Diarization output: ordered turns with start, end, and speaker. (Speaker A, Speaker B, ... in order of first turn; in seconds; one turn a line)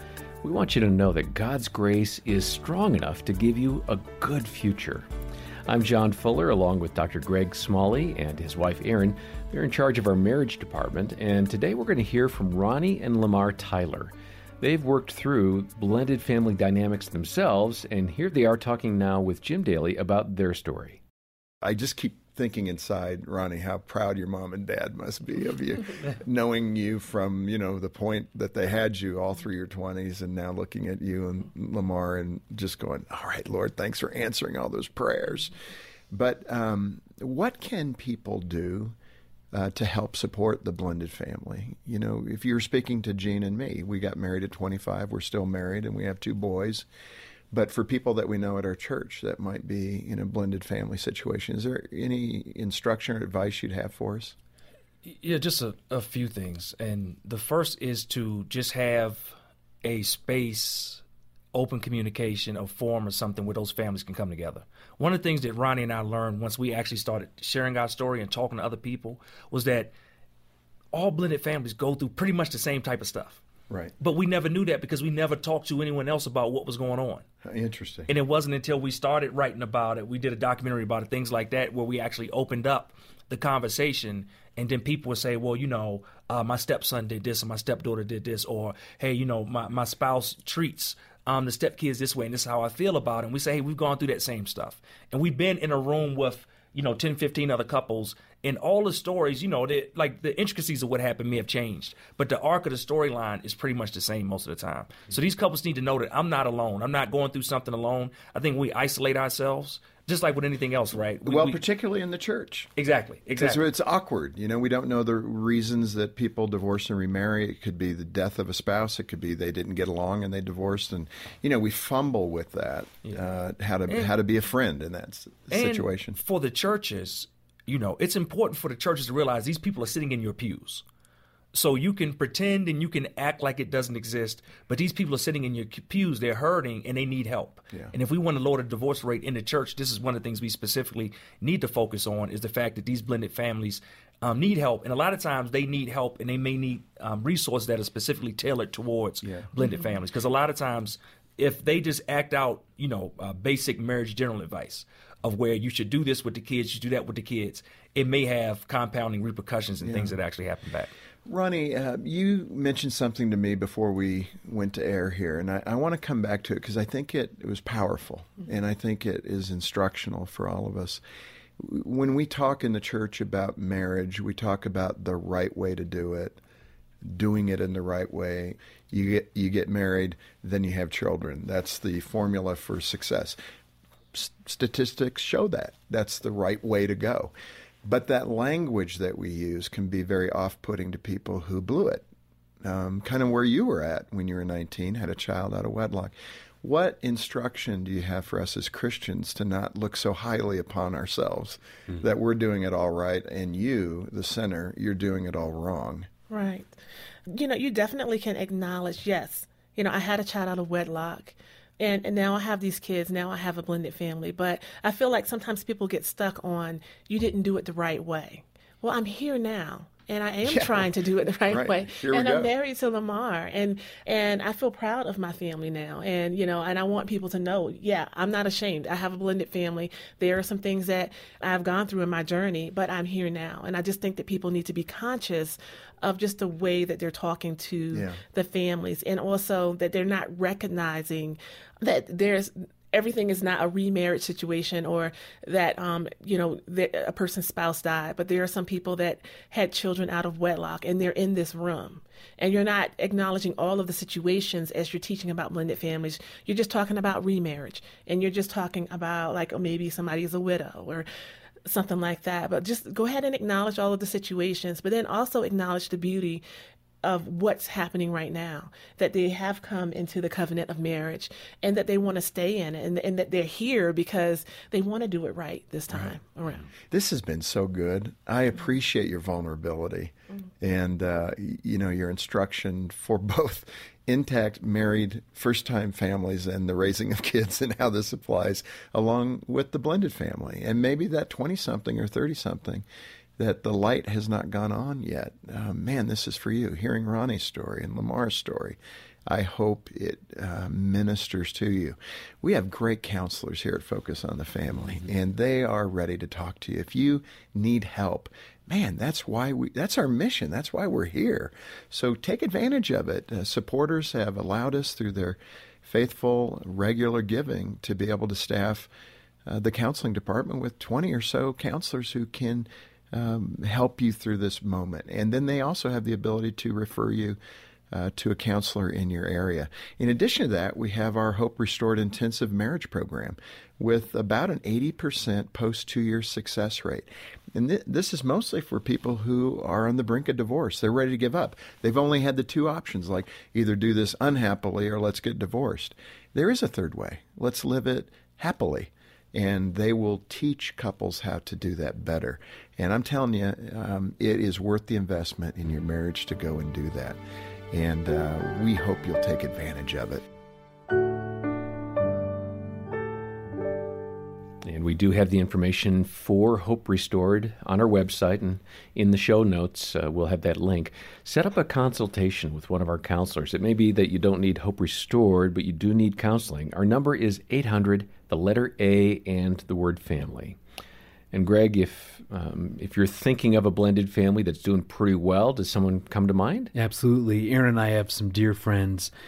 Speaker A: 0.4-5.1
Speaker A: 5.7-21.0
Speaker B: 21.6-35.5
Speaker B: 36.1-39.0
Speaker B: 39.5-46.9
Speaker B: 47.5-54.4
Speaker C: 55.0-69.9
Speaker C: 70.9-73.4
Speaker B: 73.7-73.9
Speaker C: 74.0-77.2
Speaker B: 77.5-78.1
Speaker C: 78.1-111.6
Speaker B: 111.2-112.7
Speaker C: 112.8-113.6
Speaker B: 113.4-126.2
Speaker C: 123.9-124.1
Speaker C: 125.5-130.8
Speaker C: 131.5-160.9
Speaker B: 149.2-149.5
Speaker B: 159.8-160.2
Speaker B: 161.3-171.0
Speaker B: 171.6-176.4
Speaker B: 177.0-183.4
Speaker B: 184.1-187.3
Speaker B: 187.8-192.1
Speaker B: 192.6-206.1
Speaker D: 206.3-206.8
Speaker D: 207.3-261.1
Speaker B: 220.4-220.9
Speaker B: 221.5-222.5
Speaker B: 237.9-238.2
Speaker D: 261.6-266.4
Speaker D: 267.0-276.6
Speaker B: 275.9-276.2
Speaker B: 276.9-292.9
Speaker B: 293.4-318.9
Speaker B: 319.5-327.4
Speaker B: 327.9-357.2
Speaker B: 357.7-360.2
Speaker A: 364.6-380.6
Speaker A: 381.3-386.7
Speaker E: 386.7-389.1